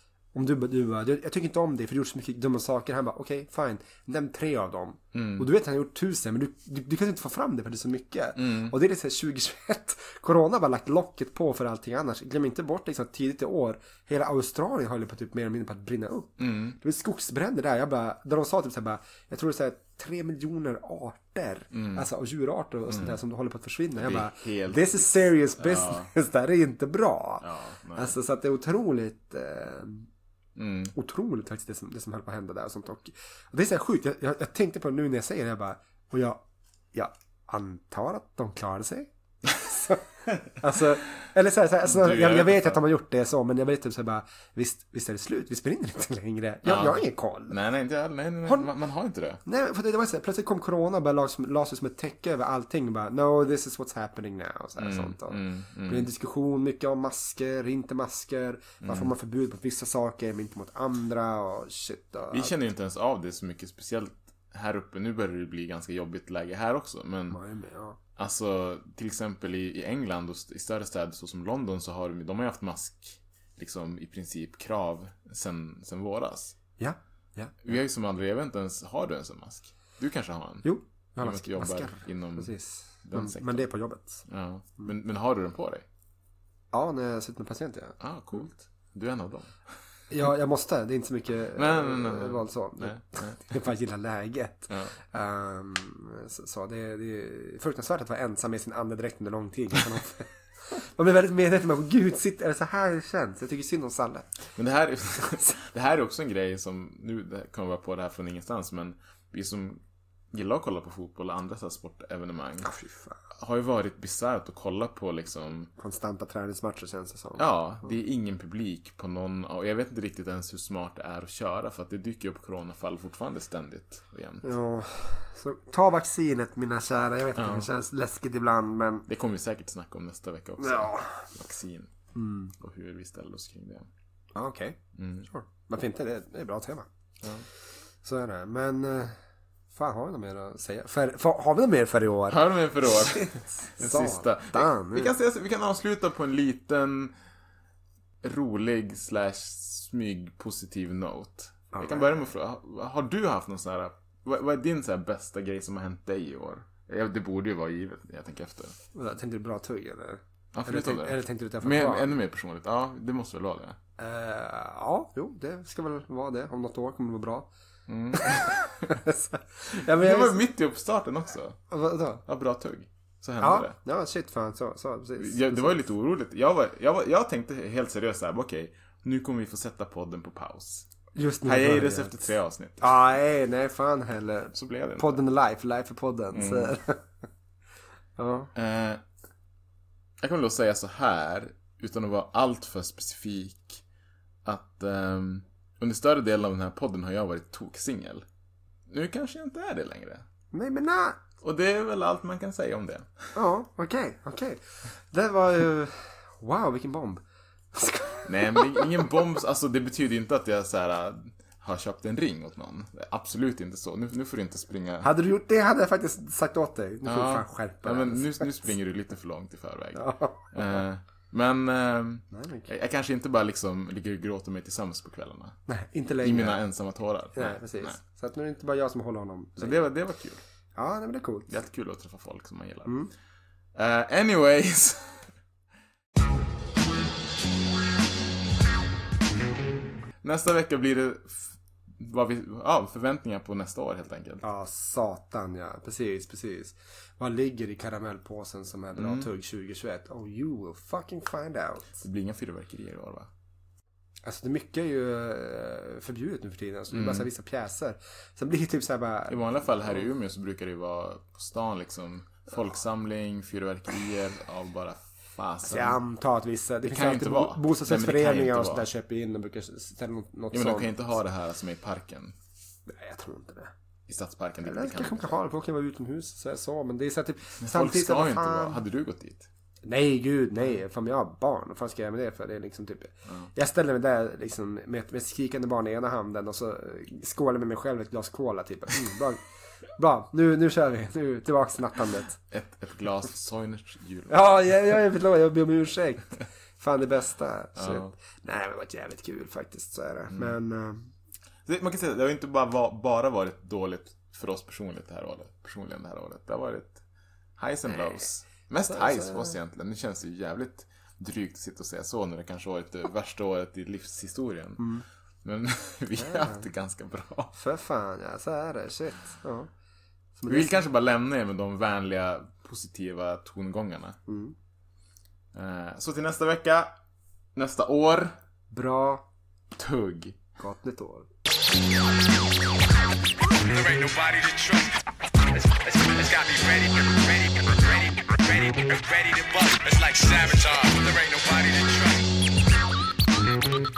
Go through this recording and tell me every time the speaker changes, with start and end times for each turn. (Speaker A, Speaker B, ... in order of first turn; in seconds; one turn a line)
Speaker A: 0.3-30.1
Speaker B: 5.1-5.5
Speaker B: 8.3-8.7
Speaker B: 16.4-16.8
Speaker B: 21.7-22.1
Speaker B: 22.9-23.2
Speaker B: 23.9-26.1
Speaker B: 27.4-28.1
Speaker B: 30.6-30.9
Speaker A: 30.9-36.4
Speaker A: 36.9-39.1
Speaker A: 39.6-40.0
Speaker A: 40.6-47.5
Speaker B: 41.8-42.8
Speaker B: 46.6-49.4
Speaker A: 48.4-48.7
Speaker A: 49.4-62.5
Speaker B: 54.8-56.1
Speaker B: 58.8-59.1
Speaker B: 62.3-67.4
Speaker A: 67.3-68.0
Speaker B: 68.2-76.6
Speaker A: 76.8-77.8
Speaker B: 77.6-83.7
Speaker A: 80.6-84.2
Speaker B: 84.2-85.8
Speaker A: 86.7-88.5
Speaker B: 88.0-89.7
Speaker A: 90.1-104.3
Speaker B: 91.5-93.5
Speaker B: 94.7-95.0
Speaker B: 104.5-112.7
Speaker A: 112.6-113.2
Speaker B: 113.3-115.7
Speaker A: 115.8-117.9
Speaker B: 117.4-124.5
Speaker A: 124.4-129.1
Speaker B: 127.3-127.7
Speaker B: 129.1-131.9
Speaker A: 130.6-131.3
Speaker A: 132.1-132.5
Speaker B: 132.6-133.9
Speaker A: 134.3-136.9
Speaker B: 134.9-135.3
Speaker B: 137.2-137.4
Speaker A: 138.0-139.2
Speaker A: 139.7-145.1
Speaker B: 142.3-147.1
Speaker B: 148.2-158.8
Speaker A: 151.7-152.1
Speaker A: 158.9-162.1
Speaker B: 160.5-163.8
Speaker A: 164.0-167.5
Speaker B: 167.9-168.9
Speaker A: 168.1-170.5
Speaker B: 169.7-171.6
Speaker A: 171.7-172.2
Speaker B: 172.2-173.8
Speaker A: 173.4-175.8
Speaker B: 175.2-180.9
Speaker A: 181.1-187.0
Speaker B: 181.4-182.9
Speaker B: 184.5-185.2
Speaker B: 186.3-186.8
Speaker A: 188.2-188.5
Speaker B: 188.5-189.0
Speaker B: 190.2-193.8
Speaker B: 194.4-198.2
Speaker B: 198.9-200.2
Speaker A: 200.5-201.2
Speaker B: 201.4-203.3
Speaker A: 203.3-207.2
Speaker A: 207.7-209.1
Speaker B: 208.2-215.1
Speaker A: 215.0-218.7
Speaker B: 217.0-225.7
Speaker A: 219.9-220.8
Speaker A: 222.3-222.7
Speaker A: 225.7-226.6
Speaker B: 226.2-228.0
Speaker A: 227.3-229.8
Speaker B: 229.6-230.4
Speaker A: 230.7-231.5
Speaker B: 231.5-233.1
Speaker A: 232.8-233.1
Speaker B: 233.7-235.3
Speaker B: 240.2-244.4
Speaker A: 244.4-252.0
Speaker B: 248.9-249.3
Speaker B: 252.0-253.3
Speaker A: 254.2-260.1
Speaker B: 256.9-257.3
Speaker B: 259.3-266.0
Speaker A: 265.6-270.9
Speaker B: 266.8-268.9
Speaker B: 270.5-272.4
Speaker A: 272.9-273.7
Speaker B: 274.1-275.4
Speaker A: 274.6-278.8
Speaker B: 277.6-279.5
Speaker A: 279.8-289.4
Speaker B: 283.2-283.5
Speaker A: 289.9-292.4
Speaker B: 292.5-294.7
Speaker A: 294.3-301.1
Speaker B: 297.8-298.1
Speaker B: 300.3-300.5
Speaker B: 301.6-307.0
Speaker B: 307.6-317.5
Speaker A: 308.9-309.6
Speaker A: 314.8-315.1
Speaker A: 316.2-316.6
Speaker A: 317.5-319.7
Speaker A: 320.4-320.8
Speaker B: 320.5-324.2
Speaker A: 324.3-324.5
Speaker B: 325.5-327.0
Speaker B: 327.5-328.4
Speaker A: 328.7-329.2
Speaker B: 329.7-330.4
Speaker A: 330.6-331.3
Speaker C: 333.5-334.9
Speaker C: 335.5-342.3